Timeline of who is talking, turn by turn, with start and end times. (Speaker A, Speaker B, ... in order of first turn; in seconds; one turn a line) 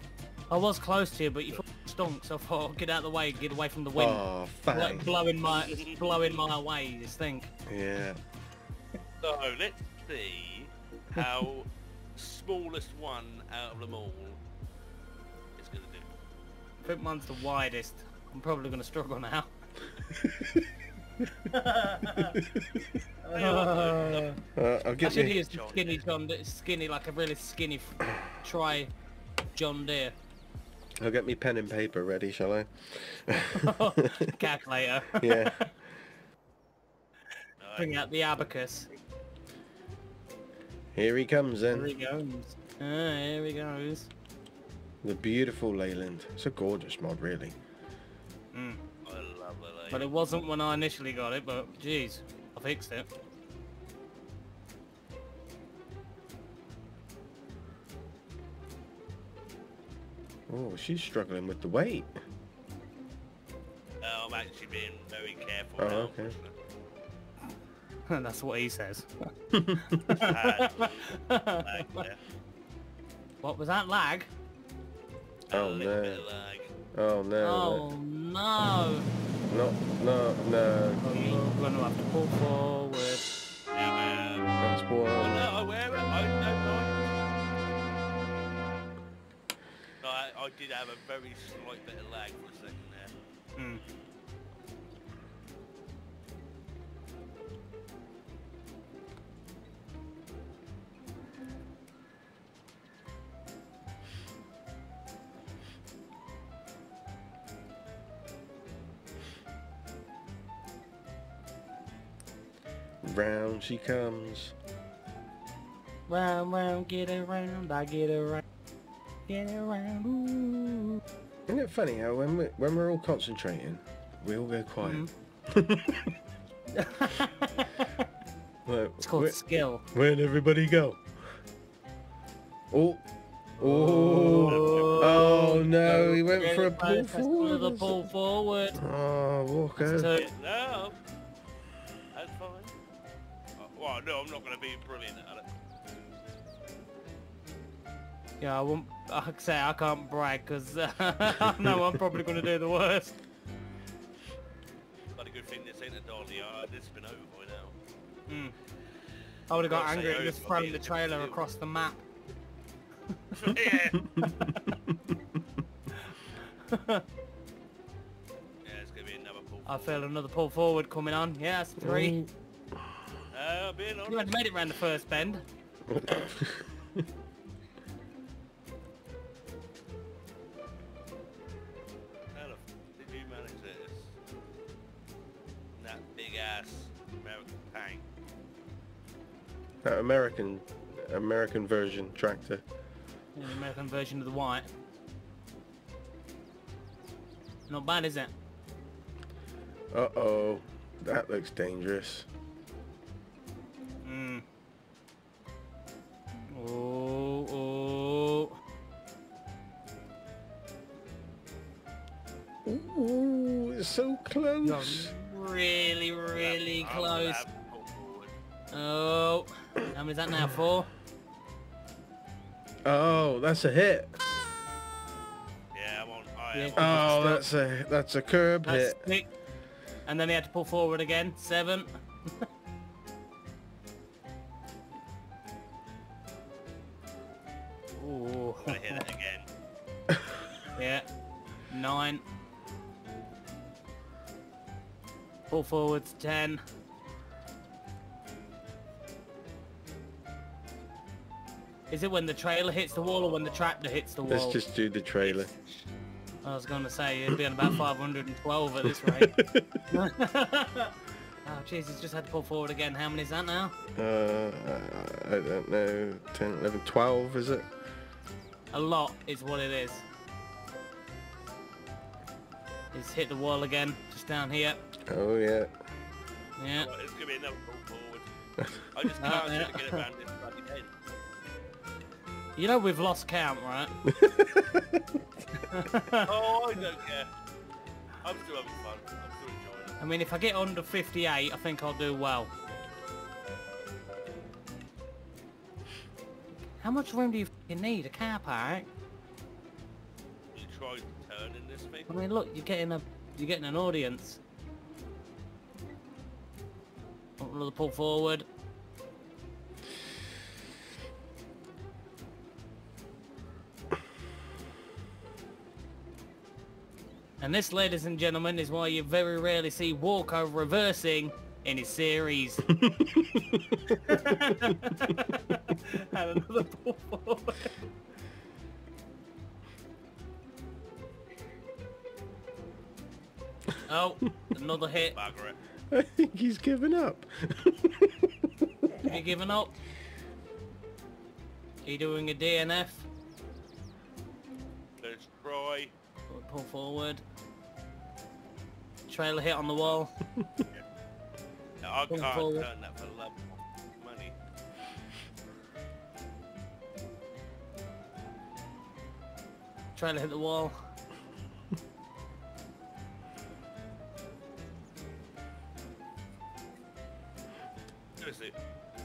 Speaker A: 0.5-7.5
Speaker B: 4.0-5.1
Speaker C: 5.6-6.0
Speaker B: 7.7-8.2
Speaker C: 9.2-14.4
Speaker C: 15.6-16.1
Speaker A: 16.8-19.5
Speaker B: 20.1-20.7
Speaker A: 21.4-22.4
Speaker B: 22.3-23.0
Speaker A: 23.2-24.4
Speaker C: 23.3-26.1
Speaker B: 24.5-25.4
Speaker A: 25.0-28.9
Speaker A: 29.5-30.1
Speaker B: 31.0-34.4
Speaker A: 33.5-35.7
Speaker B: 35.1-35.7
Speaker C: 37.6-38.0
Speaker A: 37.8-38.9
Speaker B: 40.9-41.9
Speaker A: 41.7-44.1
Speaker B: 45.0-47.5
Speaker A: 48.5-48.8
Speaker C: 49.0-50.1
Speaker A: 49.9-53.1
Speaker B: 60.5-62.2
Speaker C: 64.0-66.5
Speaker B: 65.8-66.3
Speaker A: 68.1-69.3
Speaker B: 69.5-70.1
Speaker A: 69.9-72.0
Speaker C: 70.2-72.2
Speaker A: 73.4-74.3
Speaker C: 75.5-76.7
Speaker B: 75.5-76.2
Speaker B: 76.9-77.8
Speaker A: 77.4-79.1
Speaker B: 79.5-81.3
Speaker A: 81.0-83.3
Speaker C: 83.7-84.6
Speaker B: 84.6-85.5
Speaker C: 85.1-87.1
Speaker C: 90.0-93.1
Speaker A: 93.5-93.8
Speaker B: 113.0-114.5
Speaker A: 116.1-118.4
Speaker A: 119.3-121.0
Speaker B: 121.5-126.1
Speaker A: 124.8-125.1
Speaker A: 126.7-127.6
Speaker B: 128.7-131.4
Speaker A: 129.0-129.8
Speaker B: 132.7-133.0
Speaker B: 133.6-138.1
Speaker A: 133.6-138.8
Speaker C: 134.3-135.2
Speaker B: 138.8-140.1
Speaker A: 139.8-140.3
Speaker C: 140.1-141.0
Speaker C: 142.1-142.7
Speaker C: 143.6-145.5
Speaker A: 148.4-153.2
Speaker C: 155.2-157.7
Speaker A: 158.3-158.5
Speaker A: 159.5-162.0
Speaker C: 159.7-161.4
Speaker C: 163.3-164.1
Speaker A: 164.2-164.8
Speaker A: 165.9-167.0
Speaker C: 168.6-169.9
Speaker A: 169.7-172.2
Speaker B: 171.8-173.0
Speaker C: 173.3-174.4
Speaker A: 174.1-175.4
Speaker B: 175.9-177.1
Speaker C: 182.3-184.1
Speaker C: 185.8-188.0
Speaker B: 189.8-192.6
Speaker A: 193.3-194.7
Speaker A: 197.7-198.3
Speaker B: 199.9-202.3
Speaker A: 204.0-204.4
Speaker A: 206.5-208.6
Speaker B: 212.6-215.1
Speaker A: 214.6-217.4
Speaker C: 216.4-218.3
Speaker A: 218.7-220.9
Speaker B: 222.8-224.2
Speaker C: 225.7-227.1
Speaker A: 226.5-227.4
Speaker B: 226.7-229.0
Speaker A: 228.6-229.3
Speaker A: 230.1-232.4
Speaker A: 237.9-239.0
Speaker C: 238.6-239.5
Speaker A: 240.7-241.1
Speaker A: 241.7-242.2
Speaker A: 245.5-246.6
Speaker A: 251.9-254.6
Speaker C: 252.9-253.7
Speaker B: 254.2-255.5
Speaker C: 255.2-255.9
Speaker A: 256.4-259.4
Speaker B: 258.8-259.8
Speaker A: 259.9-260.9
Speaker A: 261.4-263.7
Speaker B: 263.9-267.7
Speaker A: 268.7-270.0
Speaker A: 272.9-274.8
Speaker B: 275.1-275.7
Speaker A: 276.6-276.9
Speaker C: 276.8-278.3
Speaker C: 278.9-280.9
Speaker A: 279.2-280.0
Speaker A: 282.6-283.9
Speaker B: 284.1-285.2
Speaker A: 285.5-286.3
Speaker C: 286.2-287.3
Speaker C: 288.2-290.0
Speaker A: 290.0-292.5
Speaker A: 296.8-298.9
Speaker C: 300.5-302.1
Speaker A: 302.1-304.4
Speaker A: 307.4-308.5
Speaker A: 317.4-322.8
Speaker B: 322.9-324.4
Speaker A: 324.0-327.7
Speaker A: 333.9-335.1
Speaker C: 335.1-335.6
Speaker B: 335.9-339.1
Speaker A: 339.0-339.7
Speaker A: 341.9-343.1
Speaker C: 345.0-345.9
Speaker A: 346.3-347.2
Speaker A: 349.1-350.1
Speaker C: 351.8-354.3
Speaker A: 352.1-352.7
Speaker A: 359.9-360.8
Speaker C: 368.2-368.5